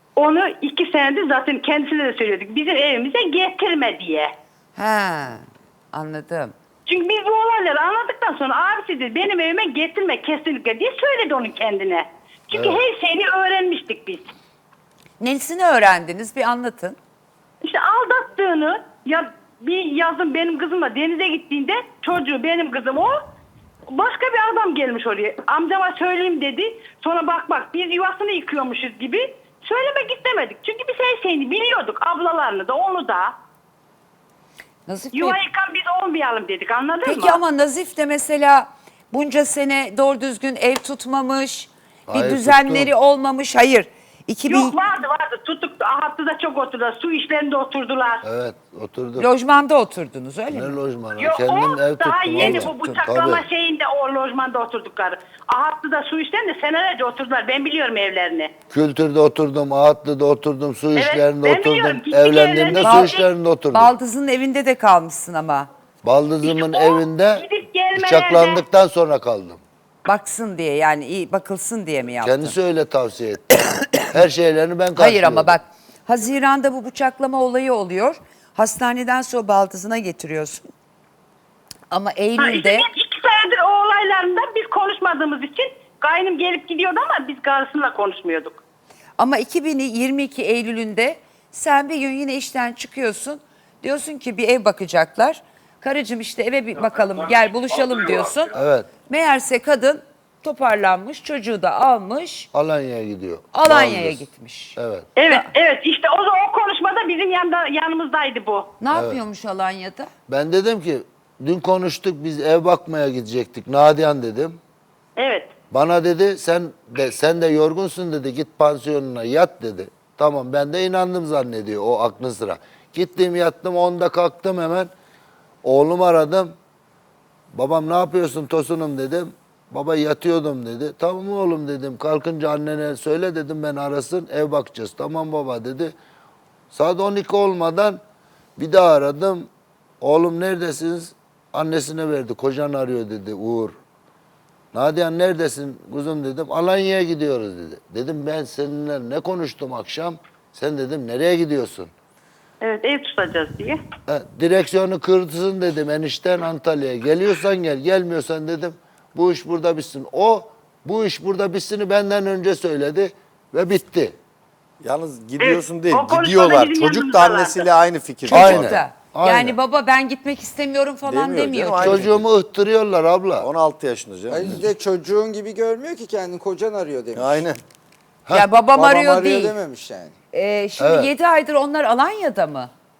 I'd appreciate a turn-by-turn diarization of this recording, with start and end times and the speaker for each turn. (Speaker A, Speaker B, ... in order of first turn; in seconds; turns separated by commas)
Speaker A: 0.2-4.3, Speaker B: 4.8-6.5, Speaker A: 6.8-14.3, Speaker C: 12.5-12.8, Speaker B: 15.2-16.9, Speaker A: 17.6-23.2, Speaker A: 23.9-33.3, Speaker B: 34.9-35.4, Speaker A: 35.1-37.4, Speaker B: 37.0-44.8, Speaker C: 42.1-42.9, Speaker A: 44.5-48.2, Speaker C: 48.2-49.3, Speaker B: 49.2-50.8, Speaker C: 50.5-53.4, Speaker A: 51.2-58.5, Speaker B: 52.4-52.9, Speaker C: 58.7-63.9, Speaker A: 61.0-63.3, Speaker B: 62.8-63.1, Speaker B: 63.7-65.7, Speaker C: 66.0-69.6, Speaker A: 66.4-68.6, Speaker B: 70.0-72.5, Speaker C: 72.2-75.6, Speaker B: 74.9-80.7, Speaker B: 81.9-82.9, Speaker A: 82.4-88.6, Speaker B: 89.2-102.5, Speaker C: 98.5-98.9, Speaker C: 102.5-104.2, Speaker B: 103.5-104.8, Speaker C: 104.8-105.1, Speaker A: 105.2-108.7, Speaker B: 108.8-110.1, Speaker C: 108.9-109.2, Speaker C: 110.3-114.6, Speaker A: 115.2-115.5, Speaker C: 115.7-124.9, Speaker C: 125.6-126.5, Speaker C: 127.5-135.9, Speaker C: 136.7-138.0, Speaker C: 138.6-139.5, Speaker C: 140.0-143.7, Speaker C: 144.7-151.9, Speaker A: 152.6-153.8, Speaker C: 154.1-164.2, Speaker D: 164.8-168.8, Speaker A: 165.4-167.7, Speaker B: 168.3-172.1, Speaker C: 168.3-169.6, Speaker D: 171.0-172.2, Speaker C: 171.8-173.5, Speaker D: 173.4-174.7, Speaker E: 174.3-177.5, Speaker D: 177.1-177.6, Speaker B: 178.3-179.6, Speaker E: 178.7-180.1, Speaker B: 180.3-182.7, Speaker C: 180.8-181.1